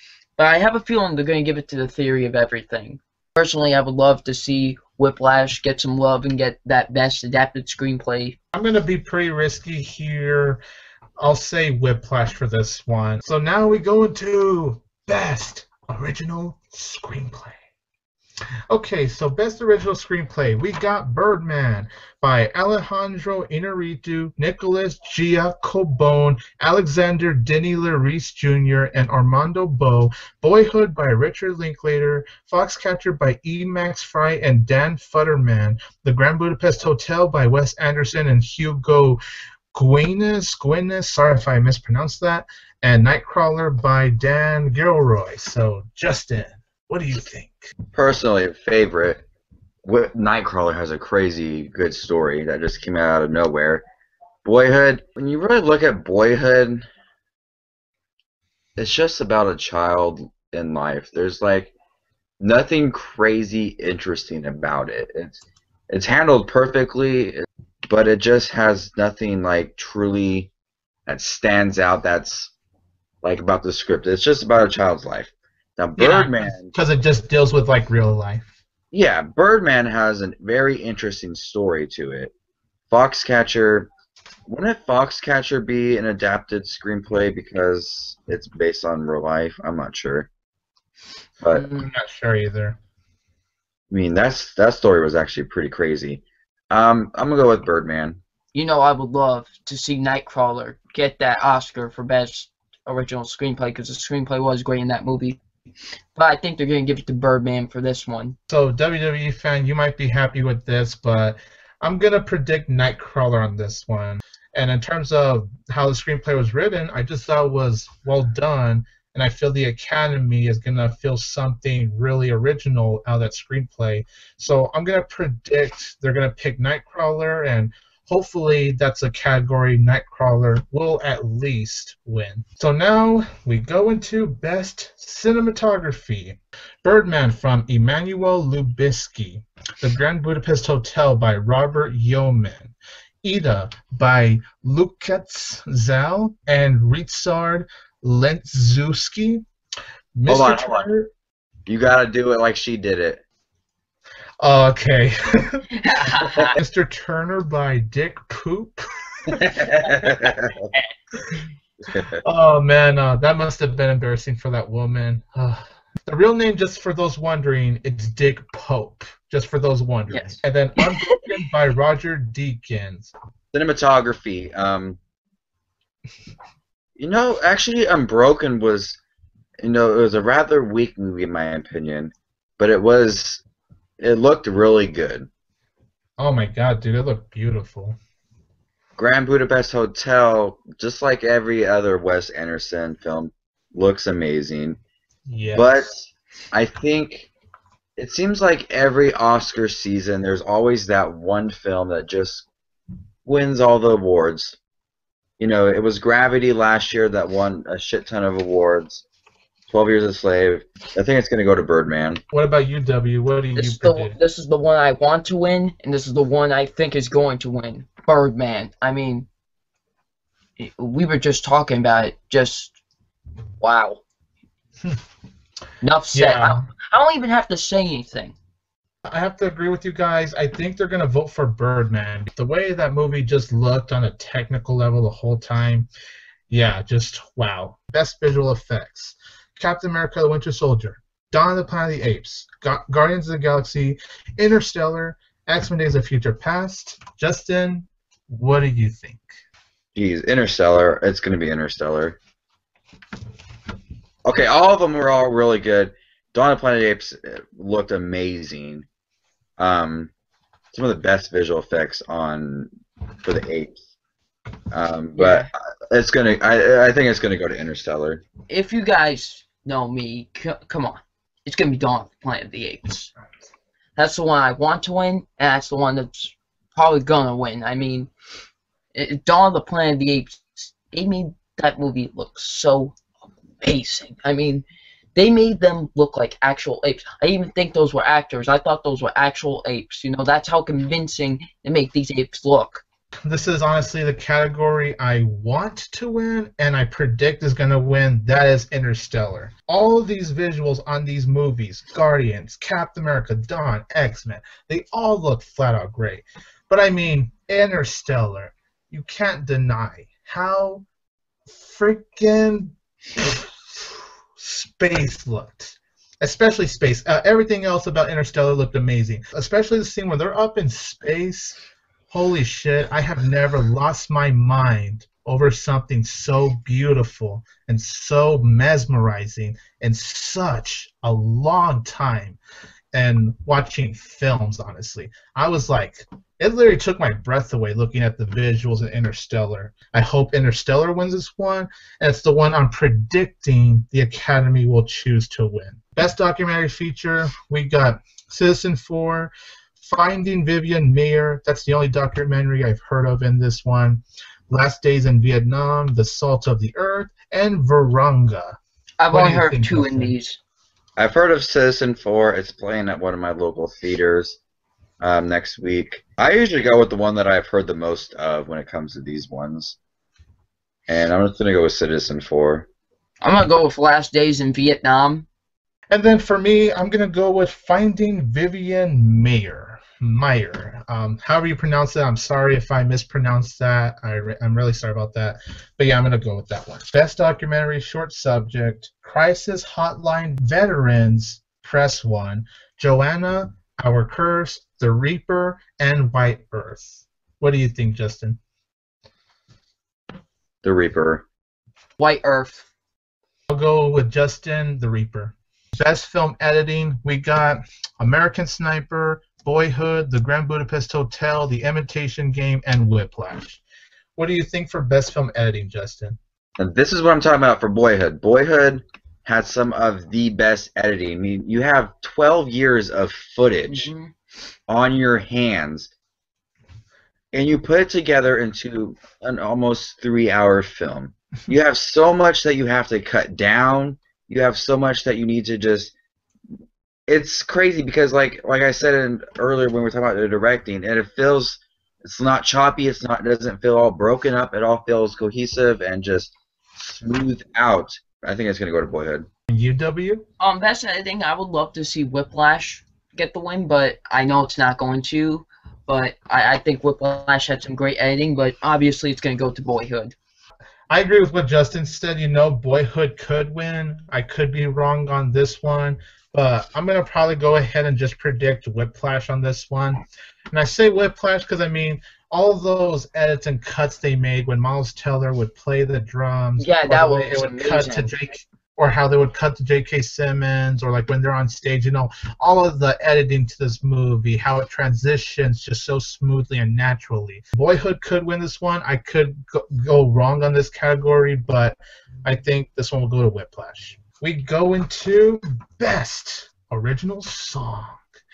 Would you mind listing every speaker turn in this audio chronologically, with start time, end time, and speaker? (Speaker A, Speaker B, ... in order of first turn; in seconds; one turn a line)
Speaker A: 0.4-8.4
Speaker B: 8.5-10.6
Speaker B: 11.2-17.6
Speaker B: 18.7-39.2
Speaker B: 39.7-47.7
Speaker C: 47.9-49.2
Speaker C: 49.8-53.9
Speaker C: 54.4-56.8
Speaker C: 58.8-61.7
Speaker C: 62.4-67.4
Speaker C: 67.9-70.5
Speaker C: 71.1-72.5
Speaker C: 73.2-76.7
Speaker B: 76.0-78.5
Speaker C: 78.9-82.3
Speaker C: 82.9-83.9
Speaker C: 84.5-90.3
Speaker C: 91.4-91.7
Speaker B: 91.6-92.8
Speaker C: 93.9-98.2
Speaker A: 98.5-105.4
Speaker A: 106.2-108.4
Speaker B: 108.5-149.4
Speaker B: 150.2-151.1
Speaker C: 150.3-150.9
Speaker C: 151.7-153.2
Speaker B: 154.4-155.7
Speaker A: 155.8-156.6
Speaker B: 156.5-159.5
Speaker C: 159.3-160.7
Speaker A: 159.9-160.8
Speaker C: 161.9-162.2
Speaker B: 162.2-173.1
Speaker A: 170.1-171.4
Speaker C: 173.5-175.0
Speaker C: 177.0-179.0
Speaker C: 179.6-183.4
Speaker C: 184.0-185.3
Speaker B: 186.2-188.0
Speaker C: 189.0-194.8
Speaker B: 195.3-195.9
Speaker C: 195.6-197.3
Speaker C: 198.0-202.5
Speaker C: 203.3-204.6
Speaker C: 205.4-209.1
Speaker C: 209.7-212.2
Speaker B: 212.3-214.2
Speaker A: 213.6-219.3
Speaker A: 220.6-222.8
Speaker A: 223.6-224.0
Speaker A: 225.8-228.3
Speaker B: 226.1-226.7
Speaker B: 229.1-235.9
Speaker B: 236.5-249.3
Speaker C: 249.9-252.2
Speaker C: 254.3-258.9
Speaker C: 259.6-260.1
Speaker C: 260.7-262.7
Speaker C: 263.2-263.8
Speaker C: 264.7-268.2
Speaker A: 265.2-265.5
Speaker A: 268.5-273.1
Speaker A: 274.0-278.1
Speaker A: 278.9-282.9
Speaker A: 283.6-292.8
Speaker B: 293.3-310.9
Speaker B: 311.5-321.6
Speaker B: 322.1-332.4
Speaker B: 332.9-358.6
Speaker A: 359.0-360.4
Speaker B: 359.1-360.1
Speaker C: 361.0-364.4
Speaker C: 365.0-369.8
Speaker C: 370.9-372.7
Speaker A: 373.2-375.3
Speaker B: 375.9-398.4
Speaker C: 400.6-401.2
Speaker A: 402.0-402.7
Speaker B: 403.5-413.6
Speaker B: 414.2-416.2
Speaker C: 416.6-423.9
Speaker A: 423.7-424.1
Speaker C: 424.7-425.9
Speaker C: 427.3-435.9
Speaker C: 437.1-449.3
Speaker B: 449.5-450.2
Speaker A: 450.4-460.1
Speaker B: 460.9-498.0
Speaker A: 476.6-478.1